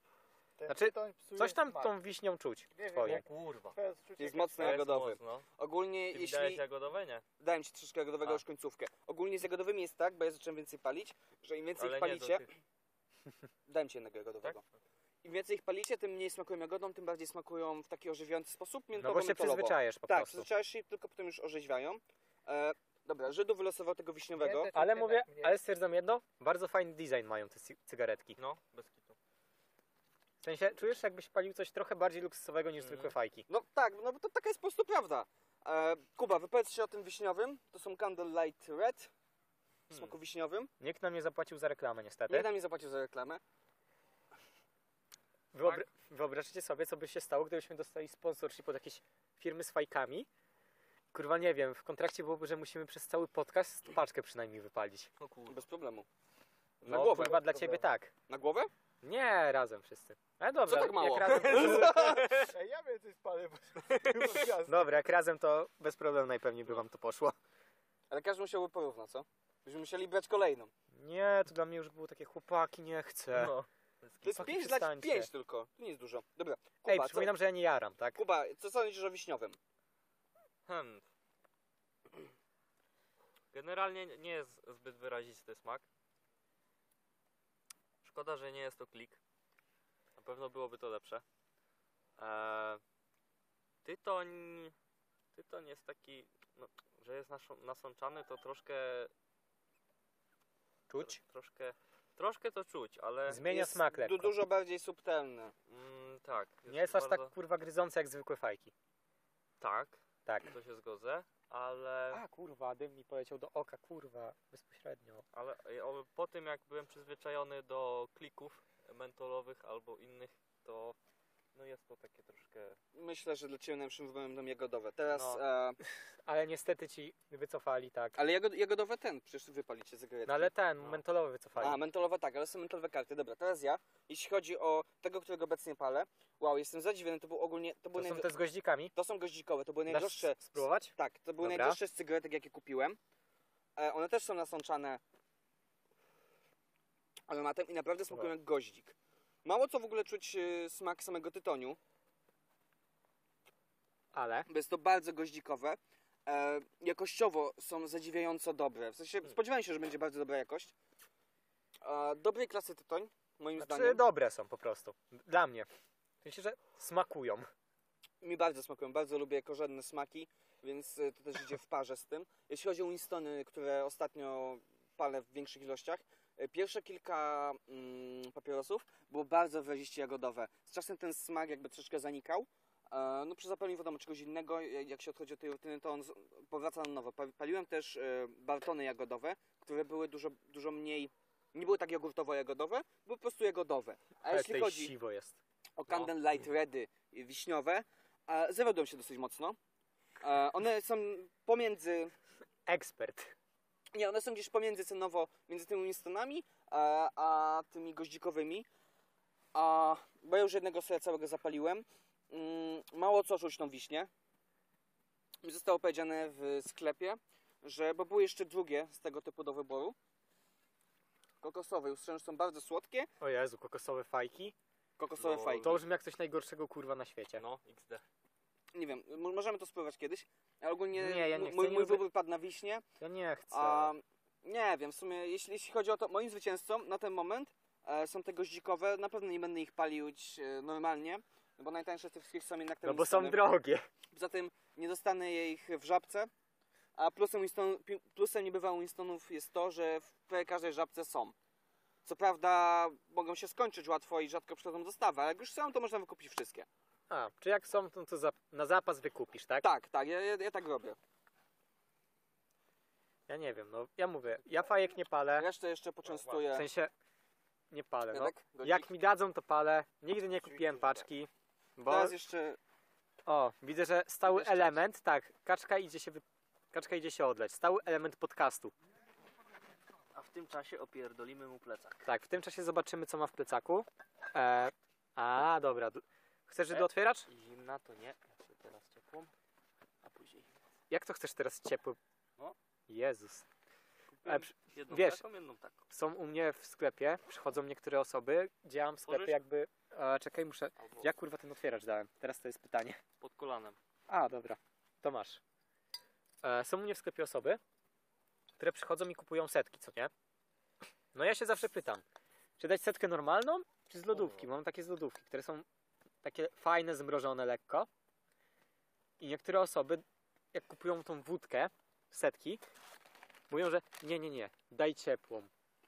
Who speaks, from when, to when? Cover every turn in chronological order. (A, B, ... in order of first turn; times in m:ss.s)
0:00.6-0:01.9 A
0:00.7-0:03.2 B
0:02.7-0:04.8 A
0:03.0-0:03.8 C
0:04.2-0:06.6 D
0:04.6-0:05.4 C
0:06.1-0:07.2 C
0:07.4-0:12.4 D
0:11.8-0:12.5 C
0:13.7-0:14.6 D
0:15.2-0:24.7 D
0:19.0-0:20.5 B
0:24.4-0:25.6 A
0:24.7-0:28.4 B
0:28.4-0:29.2 C
0:30.4-0:33.5 B
0:32.8-0:33.1 C
0:33.5-0:39.1 D
0:39.9-0:40.1 C
0:39.9-0:40.7 D
0:40.8-0:42.5 B
0:42.3-0:43.4 D
0:45.5-0:50.3 B
0:51.1-0:55.1 B
0:55.2-0:55.6 C
0:55.5-0:56.0 D
0:56.8-0:57.4 D
0:56.8-0:58.1 B
0:56.9-0:57.8 A
0:58.3-0:58.7 D
0:59.0-1:02.2 B
1:00.6-1:02.3 D
1:01.3-1:02.5 C
1:02.4-1:05.0 A
1:04.0-1:04.3 C
1:04.6-1:07.3 B
1:08.1-1:10.7 D
1:11.0-1:13.5 B
1:13.3-1:14.5 C
1:14.2-1:17.3 D
1:14.3-1:15.3 B
1:16.8-1:18.2 B
1:18.1-1:19.6 D
1:20.7-1:21.0 C
1:23.5-1:25.8 C
1:28.0-1:29.2 C
1:30.2-1:31.2 C
1:32.2-1:32.8 C
1:33.8-1:34.7 C
1:35.3-1:39.1 C
1:40.9-1:41.2 B
1:41.0-1:43.4 C
1:43.3-1:44.3 B
1:43.4-1:45.5 D
1:45.7-1:47.3 C
1:46.7-1:48.7 B
1:49.6-1:52.2 C
1:52.1-1:55.2 B
1:55.3-2:00.9 C
2:01.5-2:02.8 C
2:02.9-2:05.8 D
2:05.1-2:05.4 C
2:06.2-2:08.2 B
2:08.2-2:10.5 D
2:10.2-2:11.8 B
2:11.6-2:18.3 D
2:17.9-2:18.9 B
2:18.9-2:23.0 D
2:19.9-2:21.8 B
2:23.8-2:25.0 D
2:27.3-2:31.8 D
2:34.1-2:34.5 B
2:34.5-2:40.7 D
2:41.8-2:44.0 D
2:43.6-2:45.7 B
2:46.2-2:47.5 B
2:48.2-3:14.9 D
3:14.3-3:15.4 B
3:15.8-3:19.6 D
3:20.2-3:22.1 D
3:22.7-3:23.3 B
3:23.9-3:28.7 D
3:29.5-3:34.1 D
3:35.4-3:40.0 D
3:41.4-3:43.1 D
3:43.2-3:44.5 B
3:45.0-3:45.8 D
3:45.2-3:45.8 C
3:45.6-3:47.4 B
3:47.4-3:48.0 C
3:48.7-3:52.8 D
3:50.9-3:52.0 B
3:53.0-3:53.9 B
3:53.5-4:03.4 D
4:02.8-4:03.8 B
4:04.1-4:06.3 D
4:07.0-4:11.3 D
4:12.0-4:16.7 D
4:17.1-4:19.7 B
4:19.6-4:21.0 D
4:23.3-4:25.5 B
4:25.4-4:26.7 D
4:26.5-4:26.9 B
4:27.7-4:32.1 B
4:28.1-4:28.9 D
4:30.4-4:31.0 A
4:31.8-4:32.6 D
4:33.3-4:38.7 B
4:40.1-4:42.0 C
4:42.0-4:47.3 B
4:46.7-4:49.3 C
4:50.0-4:50.5 C
4:50.9-4:52.0 B
4:52.9-4:53.4 B
4:54.1-4:55.8 C
4:54.2-4:55.2 B
4:55.9-5:03.0 B
4:59.1-4:59.4 C
5:00.8-5:01.1 C
5:03.2-5:03.8 C
5:04.1-5:05.4 B
5:06.4-5:07.6 B
5:08.6-5:10.1 B
5:11.1-5:12.0 B
5:12.6-5:15.6 B
5:14.1-5:14.4 C
5:16.2-5:17.9 B
5:19.2-5:22.6 B
5:23.5-5:25.5 B